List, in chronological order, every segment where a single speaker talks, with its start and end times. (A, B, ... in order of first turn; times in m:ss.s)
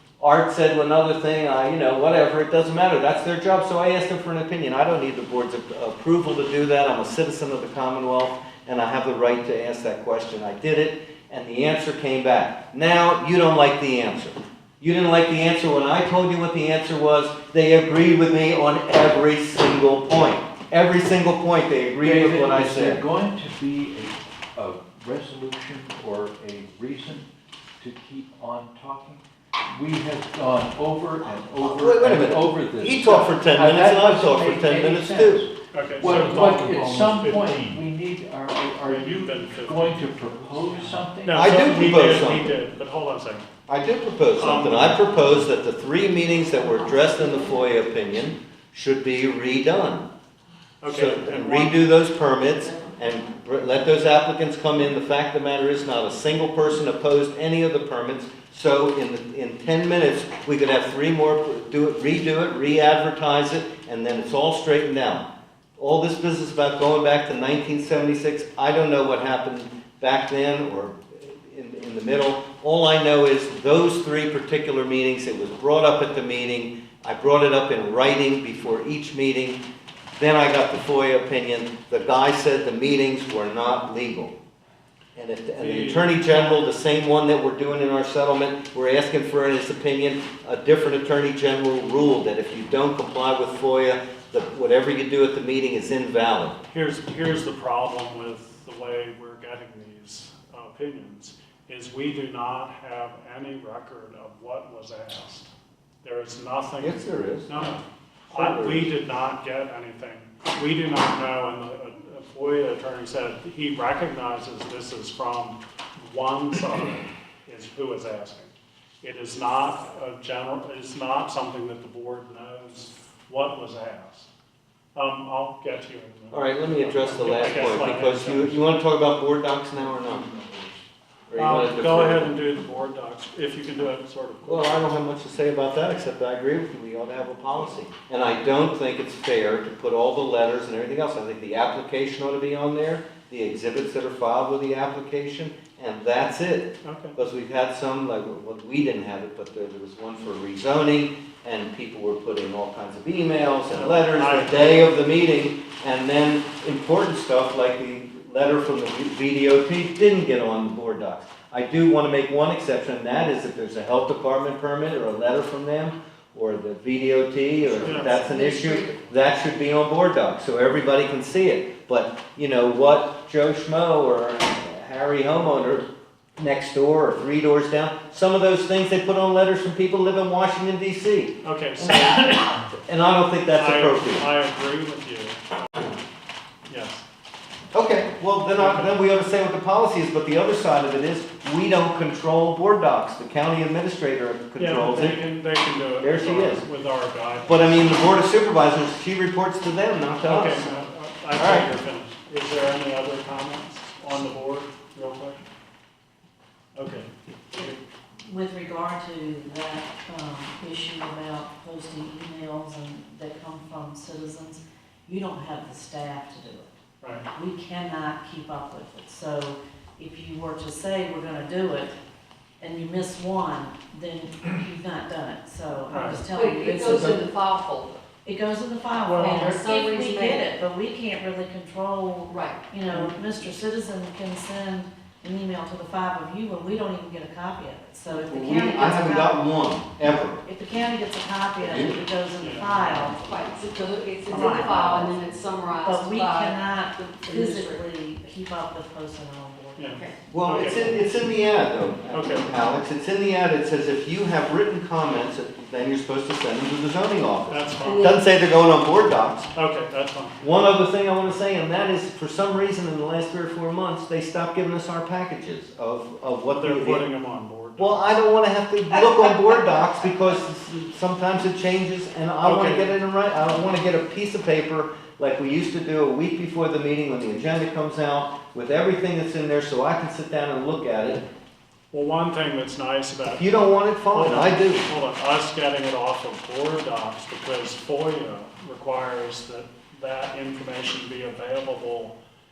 0:00.2-0:23.0 A
0:22.0-0:27.3 B
0:27.8-0:41.5 B
0:31.6-0:35.4 A
0:35.7-0:37.8 C
0:38.8-0:43.5 C
0:41.3-0:42.6 A
0:43.7-0:50.1 A
0:44.4-0:45.0 C
0:50.8-0:51.9 C
0:50.9-1:05.3 A
1:05.8-1:19.6 A
1:20.2-1:24.4 A
1:25.2-1:36.6 A
1:25.6-1:26.6 C
1:36.7-1:45.5 C
1:46.0-2:04.3 C
1:46.8-1:47.7 A
1:48.3-1:48.9 A
2:05.0-2:08.7 C
2:06.3-2:10.3 A
2:10.4-2:10.7 B
2:11.3-2:12.3 A
2:11.4-2:15.0 C
2:14.5-2:55.8 A
2:26.8-2:27.2 C
2:33.7-2:34.8 C
2:47.8-2:48.2 C
2:47.8-2:49.0 D
2:56.4-3:02.0 A
3:01.4-3:02.8 C
3:02.9-3:04.2 A
3:03.5-3:05.4 C
3:06.7-3:07.0 C
3:07.7-3:15.3 A
3:08.6-3:09.0 C
3:14.6-3:18.2 C
3:16.0-3:16.6 A
3:17.5-3:20.7 A
3:20.2-3:25.4 C
3:21.3-3:21.7 A
3:26.8-3:27.8 C
3:28.3-3:36.8 E
3:37.0-3:37.3 C
3:37.3-3:42.0 E
3:42.6-3:47.2 E
3:45.9-3:46.2 C
3:46.3-3:48.0 D
3:48.2-3:59.5 E
3:49.0-3:49.6 C
3:49.2-3:50.5 D
3:52.3-3:52.7 D
3:58.1-4:00.4 A
4:00.4-4:03.5 E
4:01.6-4:02.0 A
4:02.4-4:03.2 C
4:03.2-4:07.9 D
4:04.3-4:05.1 E
4:05.8-4:10.0 E
4:09.8-4:11.0 C
4:10.3-4:19.5 A
4:12.1-4:12.5 C
4:17.5-4:18.2 C
4:17.8-4:18.2 D
4:19.5-4:20.4 C
4:20.4-4:27.1 A
4:26.5-4:28.2 C
4:27.8-4:41.3 A
4:32.4-4:33.0 C
4:41.9-4:43.5 C
4:43.3-4:44.8 A
4:44.1-4:52.1 C